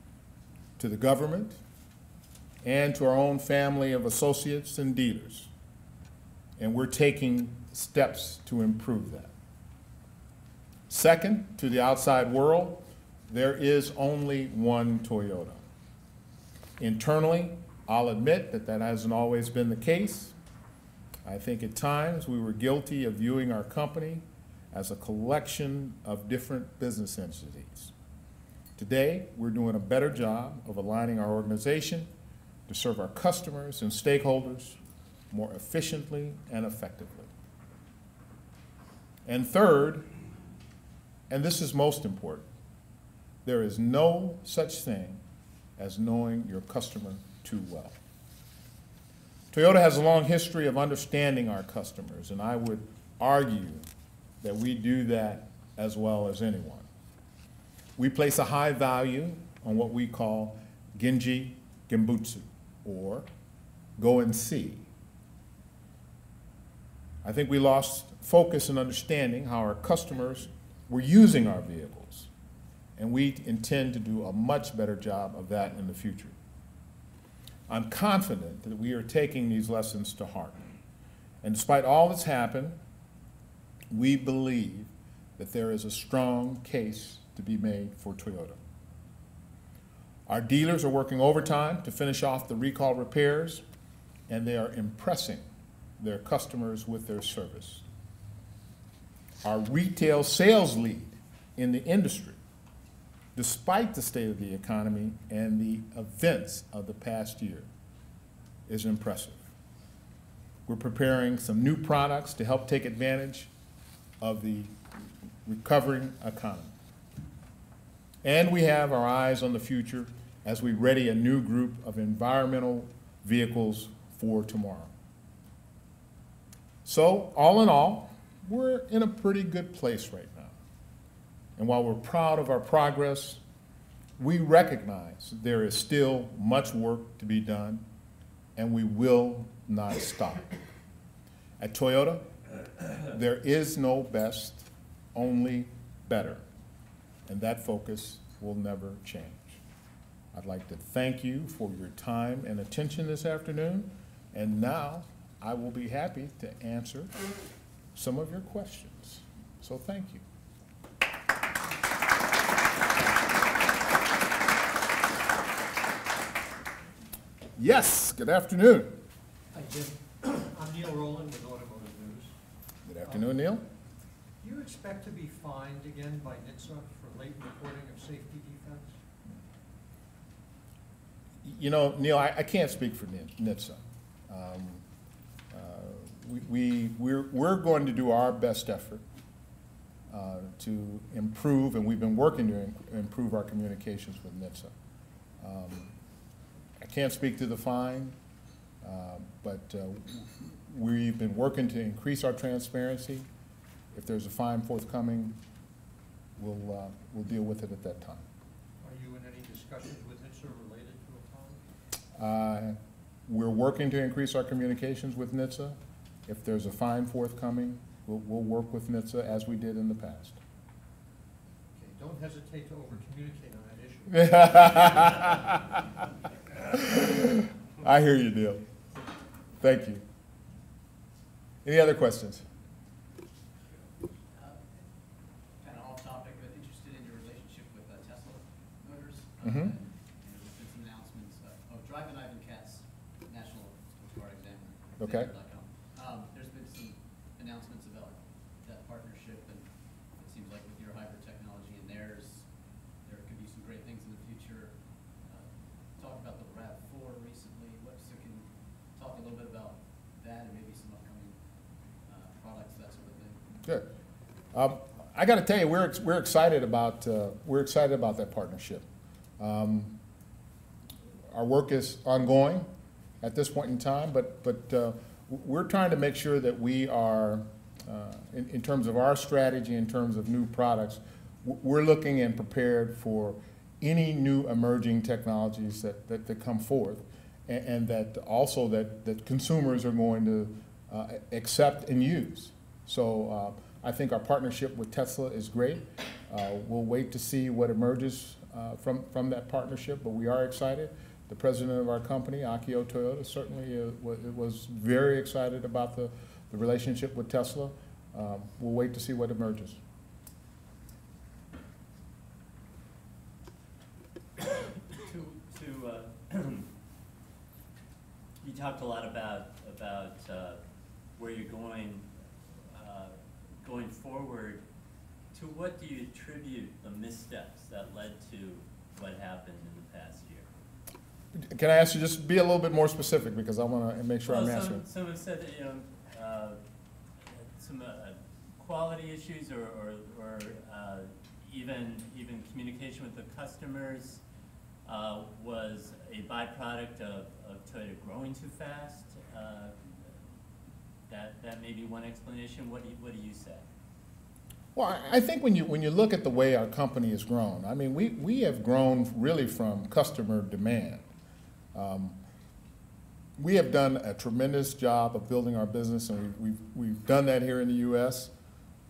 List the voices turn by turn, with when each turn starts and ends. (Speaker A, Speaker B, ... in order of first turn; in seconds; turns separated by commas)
Speaker A: 0.8-1.6, Speaker A: 2.6-5.5, Speaker A: 6.6-9.3, Speaker A: 10.9-15.6, Speaker A: 16.8-20.4, Speaker A: 21.2-27.9, Speaker A: 28.8-32.1, Speaker A: 32.7-34.8, Speaker A: 35.3-37.3, Speaker A: 39.2-40.0, Speaker A: 41.3-42.5, Speaker A: 43.4-45.2, Speaker A: 45.8-48.0, Speaker A: 49.5-53.8, Speaker A: 54.4-56.9, Speaker A: 58.0-63.3, Speaker A: 64.0-64.8, Speaker A: 67.2-72.3, Speaker A: 73.0-76.3, Speaker A: 77.7-80.7, Speaker A: 81.4-82.8, Speaker A: 83.9-88.6, Speaker A: 90.3-93.6, Speaker A: 94.3-95.4, Speaker A: 96.0-97.8, Speaker A: 99.4-102.4, Speaker A: 103.3-107.7, Speaker A: 108.7-109.4, Speaker A: 110.7-113.5, Speaker A: 114.2-114.7, Speaker A: 115.5-116.7, Speaker A: 118.2-124.9, Speaker A: 126.8-130.5, Speaker A: 131.6-133.4, Speaker A: 134.2-137.8, Speaker A: 138.6-140.5, Speaker A: 141.6-142.2, Speaker A: 142.9-146.4, Speaker A: 147.3-149.6, Speaker A: 150.3-157.1, Speaker A: 157.9-160.2, Speaker A: 167.6-168.9, Speaker B: 169.5-172.3, Speaker A: 172.8-173.6, Speaker B: 174.4-178.9, Speaker A: 181.4-184.8, Speaker A: 185.5-189.0, Speaker A: 190.1-194.7, Speaker A: 195.4-195.9, Speaker A: 196.8-198.1, Speaker A: 198.8-203.3, Speaker A: 203.9-205.3, Speaker A: 206.4-208.2, Speaker B: 208.8-211.6, Speaker A: 212.2-212.8, Speaker A: 213.3-215.8, Speaker A: 216.3-220.4, Speaker B: 221.7-225.2, Speaker A: 224.1-225.8, Speaker A: 226.6-228.6, Speaker A: 229.6-230.0, Speaker A: 231.6-232.4, Speaker C: 234.3-234.6, Speaker C: 235.6-249.6, Speaker A: 239.4-239.7, Speaker A: 245.0-245.3, Speaker C: 250.2-252.5, Speaker C: 253.0-261.4, Speaker C: 262.1-263.4, Speaker A: 264.5-268.8, Speaker A: 269.4-269.9, Speaker A: 271.3-272.7, Speaker A: 273.2-309.8, Speaker D: 314.4-316.7, Speaker D: 318.4-320.6, Speaker D: 321.1-322.1, Speaker D: 322.7-324.6, Speaker D: 325.3-330.5, Speaker A: 331.3-334.8, Speaker D: 334.2-336.6, Speaker D: 337.2-344.2, Speaker D: 344.8-350.2, Speaker D: 351.1-353.6, Speaker A: 354.7-361.1, Speaker A: 361.7-362.2, Speaker A: 363.4-368.3